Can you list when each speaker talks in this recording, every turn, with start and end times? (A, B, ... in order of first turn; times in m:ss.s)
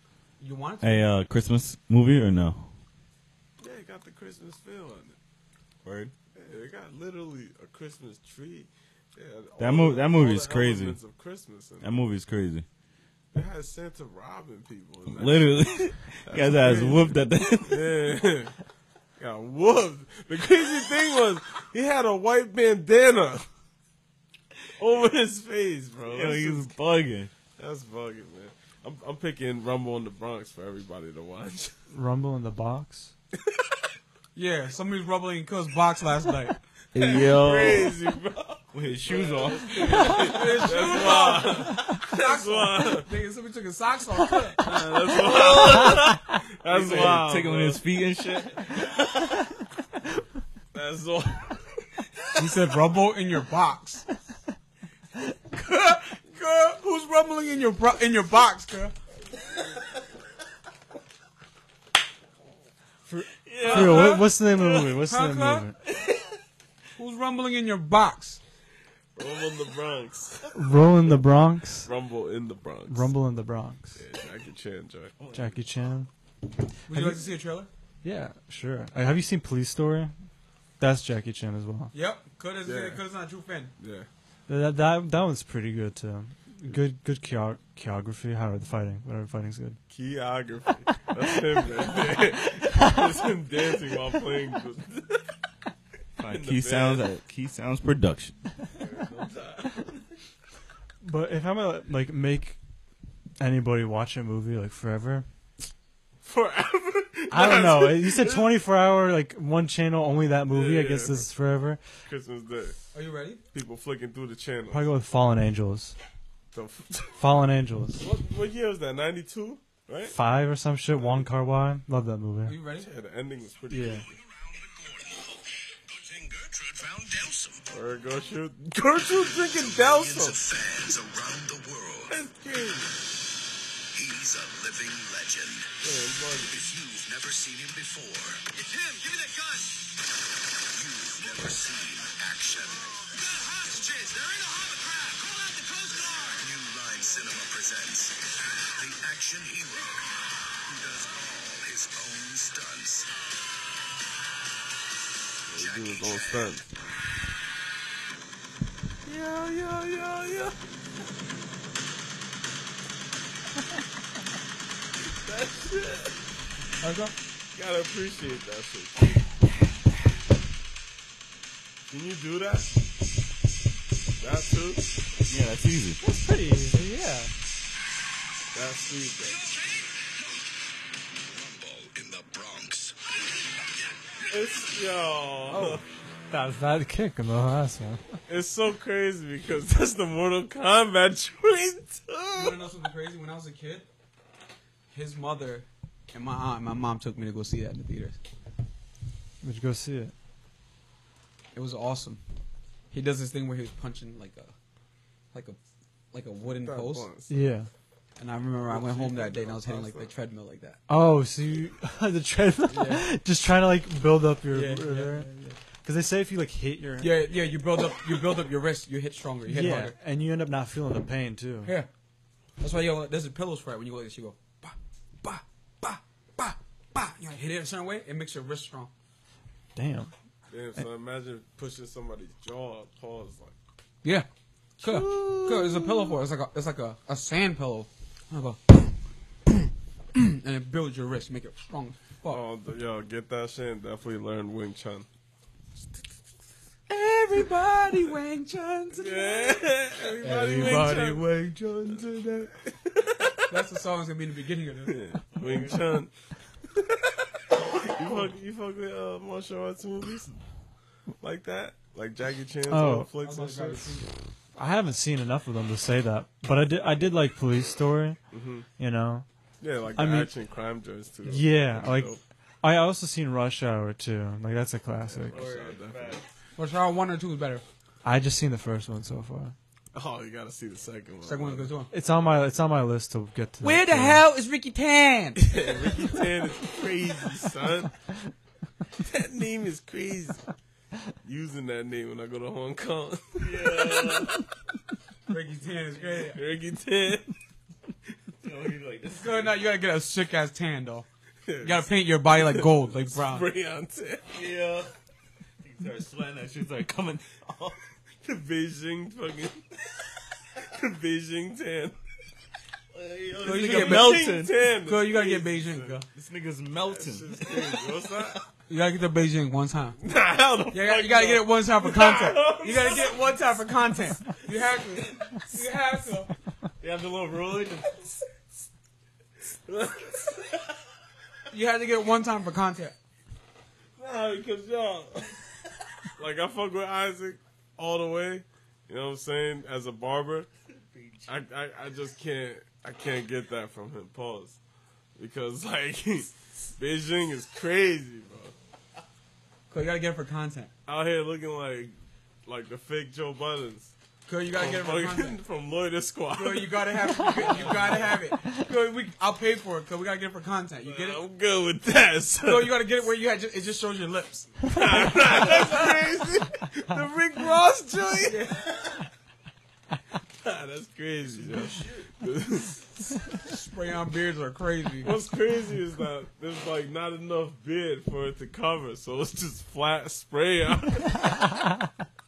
0:00.4-0:01.0 A
0:00.8-0:02.7 B
0:03.6-0:05.2 C
0:05.8-0:06.1 B
0:06.3-0:12.0 C
0:09.6-0:11.0 B
0:11.8-0:12.6 B
0:13.3-0:18.5 C
0:15.1-0:17.9 B
0:19.2-0:23.4 C
0:24.8-0:26.7 C
0:26.1-0:27.3 B
0:27.6-0:31.7 C
0:31.9-0:33.1 D
0:34.3-0:36.6 A
0:36.9-0:38.0 B
0:36.9-0:43.1 C
0:38.7-0:41.6 B
0:39.8-0:44.6 A
0:44.6-0:47.8 C
0:45.1-0:49.4 B
0:50.7-0:51.6 C
0:52.4-0:54.0 A
0:55.5-0:58.9 A
1:03.1-1:05.8 D
1:03.4-1:04.2 B
1:03.6-1:04.3 A
1:05.0-1:05.7 A
1:06.0-1:06.3 B
1:07.0-1:08.4 A
1:09.2-1:11.2 C
1:10.5-1:11.9 D
1:11.8-1:13.1 C
1:12.9-1:14.0 D
1:14.0-1:15.1 C
1:15.2-1:15.6 B
1:15.3-1:16.1 D
1:16.9-1:17.7 A
1:16.9-1:17.2 D
1:18.0-1:20.1 D
1:20.8-1:21.9 D
1:21.9-1:23.7 A
1:22.6-1:23.0 C
1:23.8-1:24.1 C
1:24.5-1:29.8 D
1:29.9-1:35.3 C
1:36.2-1:38.4 B
1:36.3-1:37.0 C
1:38.7-1:40.0 C
1:41.0-1:42.6 D
1:43.4-1:45.2 D
1:46.2-1:48.5 C
1:47.3-1:51.8 D
1:50.5-1:51.3 C
1:52.0-1:52.8 C
1:52.9-1:53.4 A
1:53.5-1:54.9 C
1:54.7-1:56.0 D
1:56.5-1:57.2 C
1:57.2-1:58.0 D
1:58.0-2:00.2 C
2:00.1-2:02.5 D
2:01.0-2:01.2 C
2:02.4-2:02.9 A
2:02.8-2:04.0 C
2:03.7-2:04.0 D
2:04.1-2:05.3 E
2:05.9-2:07.7 E
2:07.7-2:10.4 C
2:09.2-2:12.1 E
2:12.1-2:12.9 C
2:13.9-2:15.7 E
2:15.8-2:16.5 C
2:16.4-2:19.7 E
2:20.7-2:33.1 E
2:35.5-2:36.7 C
2:35.5-2:36.4 E
2:39.0-2:40.6 C
2:45.0-2:46.2 C
2:46.8-2:47.1 A
2:47.5-2:49.2 C
2:51.9-2:52.7 C
2:54.2-2:54.8 C
2:55.3-2:56.0 B
2:56.0-2:57.3 D
2:58.5-2:59.4 C
2:59.5-2:59.8 E
3:01.2-3:03.0 E
3:04.3-3:05.8 C
3:05.5-3:05.8 A
3:06.3-3:08.2 D
3:08.3-3:12.6 C
3:12.3-3:13.9 A
3:14.9-3:18.2 A
3:19.4-3:20.1 D
3:21.5-3:22.2 A
3:22.9-3:24.5 A
3:25.3-3:25.6 A
3:26.1-3:27.1 A
3:26.4-3:27.4 C
3:27.3-3:27.7 D
3:28.2-3:30.8 A
3:28.6-3:30.1 C
3:30.9-3:35.3 D
3:32.7-3:33.0 A
3:34.5-3:35.6 A
3:35.8-3:37.2 D
3:37.0-3:39.9 A
3:39.5-3:41.7 D
3:42.6-3:48.9 A
3:49.8-3:50.1 D
3:50.5-3:53.6 C
3:54.8-3:56.1 D
3:54.8-3:59.0 A
3:59.5-4:02.4 A
4:02.3-4:05.1 C
4:06.9-4:12.1 A
4:08.9-4:13.6 C
4:13.5-4:15.7 A
4:14.8-4:16.1 C
4:16.7-4:17.2 C
4:17.8-4:20.3 C
4:21.2-4:24.0 C
4:22.7-4:23.1 D
4:23.2-4:24.1 A
4:24.6-4:28.2 D
4:28.3-4:28.7 C
4:28.8-4:29.2 D
4:29.6-4:32.2 C
4:29.9-4:30.3 D
4:31.2-4:35.4 D
4:35.1-4:36.2 C
4:35.3-4:36.3 B
4:36.6-4:37.6 A
4:38.0-4:39.5 D
4:39.9-4:41.7 C
4:41.2-4:41.9 A
4:41.9-4:44.2 D
4:43.6-4:46.2 A
4:45.4-4:47.9 C
4:49.0-4:50.4 C
4:51.2-4:54.4 C
4:53.4-4:54.4 B
4:55.3-4:56.4 A
4:56.1-4:57.3 C
4:58.4-4:59.6 B
4:59.1-5:01.1 A
5:01.4-5:04.2 C
5:01.6-5:03.4 A
5:04.3-5:04.9 B
5:05.6-5:07.8 B
5:08.2-5:09.6 C
5:10.6-5:12.0 C
5:12.9-5:14.5 B
5:13.4-5:16.0 A
5:13.4-5:16.0 C
5:16.1-5:18.4 B
5:16.9-5:18.4 C
5:18.7-5:20.0 A
5:20.0-5:23.4 C
5:20.7-5:26.3 A
5:26.8-5:28.0 B
5:27.5-5:27.8 C
5:29.6-5:30.6 C
5:31.5-5:32.9 A
5:34.0-5:35.4 C
5:36.2-5:40.5 C
5:40.9-5:41.3 B
5:41.3-5:44.6 C
5:45.2-5:48.5 C
5:49.7-5:50.7 A
5:50.9-5:51.9 C
5:52.4-5:53.9 C
5:54.2-5:55.4 A
5:54.5-5:58.2 C
5:56.3-6:01.2 A
5:57.7-5:58.0 B
6:00.8-6:02.8 C
6:02.4-6:06.0 A
6:04.7-6:08.5 C
6:08.2-6:08.7 A
6:10.4-6:13.2 C
6:11.4-6:12.1 B
6:13.3-6:15.1 A
6:15.0-6:21.4 C